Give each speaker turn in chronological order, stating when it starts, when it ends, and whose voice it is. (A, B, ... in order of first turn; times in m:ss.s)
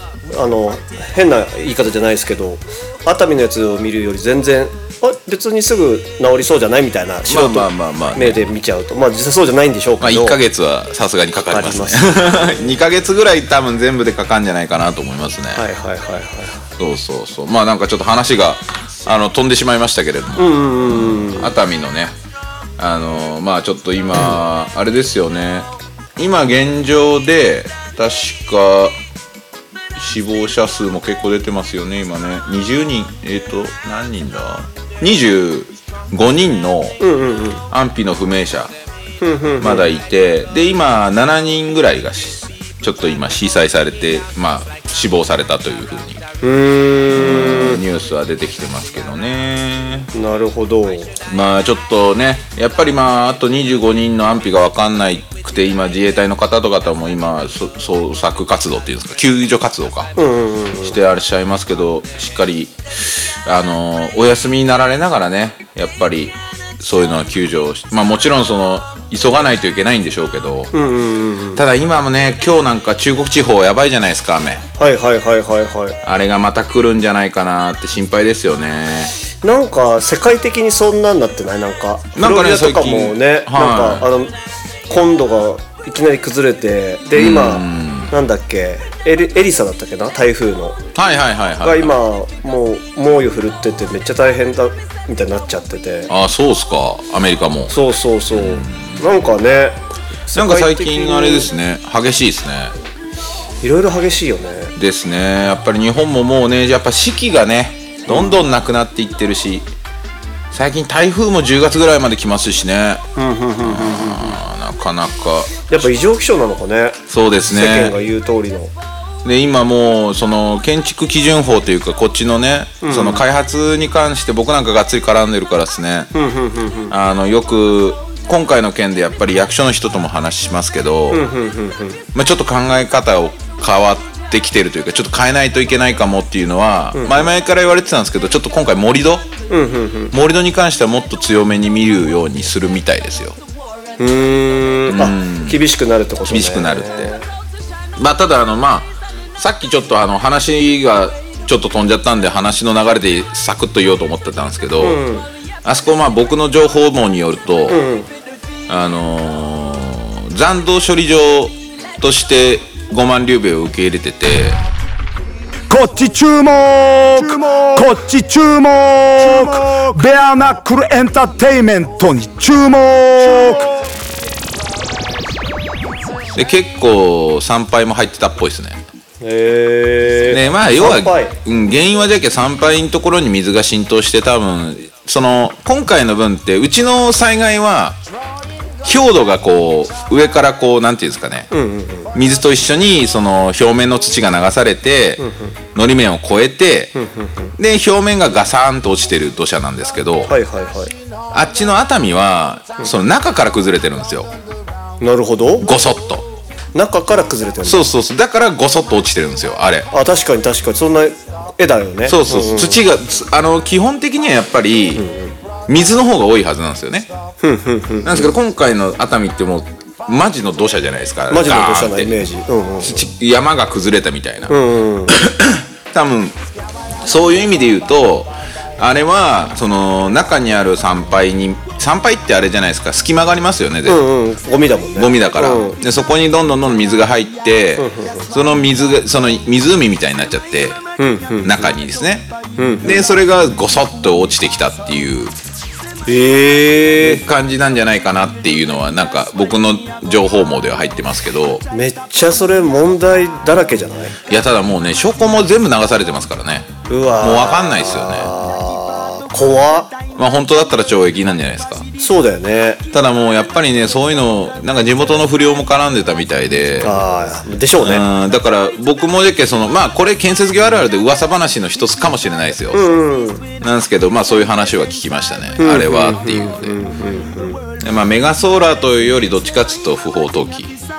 0:00.3-0:10.4 A
0:07.3-0:08.4 B
0:10.0-0:15.6 B
0:11.5-0:12.6 A
0:15.5-0:16.7 A
0:16.8-0:22.1 B
0:20.4-0:21.5 A
0:22.8-0:29.0 B
0:30.0-0:37.0 B
0:37.0-0:37.6 A
0:37.7-0:38.7 B
0:39.2-0:39.9 A
0:39.6-0:46.2 B
0:46.4-0:47.8 A
0:47.1-0:50.1 B
0:50.1-0:51.2 A
0:51.3-1:00.1 B
1:00.2-1:01.0 A
1:00.8-1:10.7 B
1:10.7-1:11.6 A
1:11.6-1:14.6 B
1:14.8-1:16.0 A
1:16.0-1:19.1 B
1:19.4-1:24.3 A
1:22.2-1:24.1 B
1:24.9-1:30.8 A
1:27.2-1:28.1 B
1:31.0-1:32.0 B
1:31.6-1:36.1 A
1:36.1-1:37.7 B
1:37.7-1:41.5 A
1:38.3-1:39.1 B
1:40.3-1:42.8 B
1:43.6-1:44.7 A
1:44.8-1:49.7 B
1:48.1-1:48.4 A
1:50.5-1:53.0 B
1:53.2-1:54.4 A
1:53.6-1:55.9 B
1:55.7-1:58.7 A
1:57.1-1:58.0 B
1:59.2-2:06.1 B
2:02.8-2:03.2 A
2:06.1-2:07.0 A
2:06.9-2:11.3 B
2:11.1-2:12.0 A
2:12.2-2:19.3 B
2:17.0-2:17.3 A
2:19.5-2:20.1 A
2:20.1-2:23.4 B
2:24.0-2:27.3 A
2:24.9-2:25.6 B
2:26.3-2:27.1 B
2:28.0-2:35.0 B
2:34.8-2:35.3 A
2:35.6-2:37.8 B
2:37.7-2:38.1 A
2:38.7-2:44.6 B
2:45.7-2:53.7 C
2:56.3-2:58.8 B
2:59.2-3:01.4 A
3:00.3-3:08.0 B
3:08.8-3:11.5 B
3:11.5-3:12.1 A
3:12.1-3:16.9 B
3:15.2-3:15.6 A
3:17.0-3:17.5 A
3:17.6-3:20.3 B
3:20.2-3:20.9 A
3:21.3-3:24.3 B
3:25.0-3:25.7 A
3:25.6-3:26.3 B
3:26.7-3:27.9 A
3:27.6-3:29.9 B
3:29.9-3:32.8 A
3:32.1-3:35.0 B
3:35.0-3:35.4 A
3:35.7-3:37.1 B
3:37.4-3:38.3 A
3:38.0-3:42.1 B
3:41.3-3:43.1 A
3:42.8-3:44.6 B
3:44.5-3:45.2 A
3:45.1-3:46.4 B
3:47.0-3:54.0 B
3:53.9-3:55.8 A
3:55.0-4:00.8 B
3:57.8-3:58.3 A
4:01.0-4:01.7 A
4:01.4-4:02.3 B
4:02.6-4:03.1 A
4:02.8-4:05.3 B
4:06.1-4:07.2 A
4:07.0-4:11.6 B
4:11.7-4:14.2 A
4:14.3-4:16.7 B
4:16.9-4:19.9 A
4:17.2-4:18.3 B
4:20.2-4:21.9 B
4:22.0-4:22.8 A
4:22.9-4:27.0 B
4:26.8-4:28.1 A
4:27.8-4:32.8 B
4:32.7-4:33.4 A
4:33.6-4:36.8 B
4:35.6-4:37.6 A
4:37.8-4:40.7 B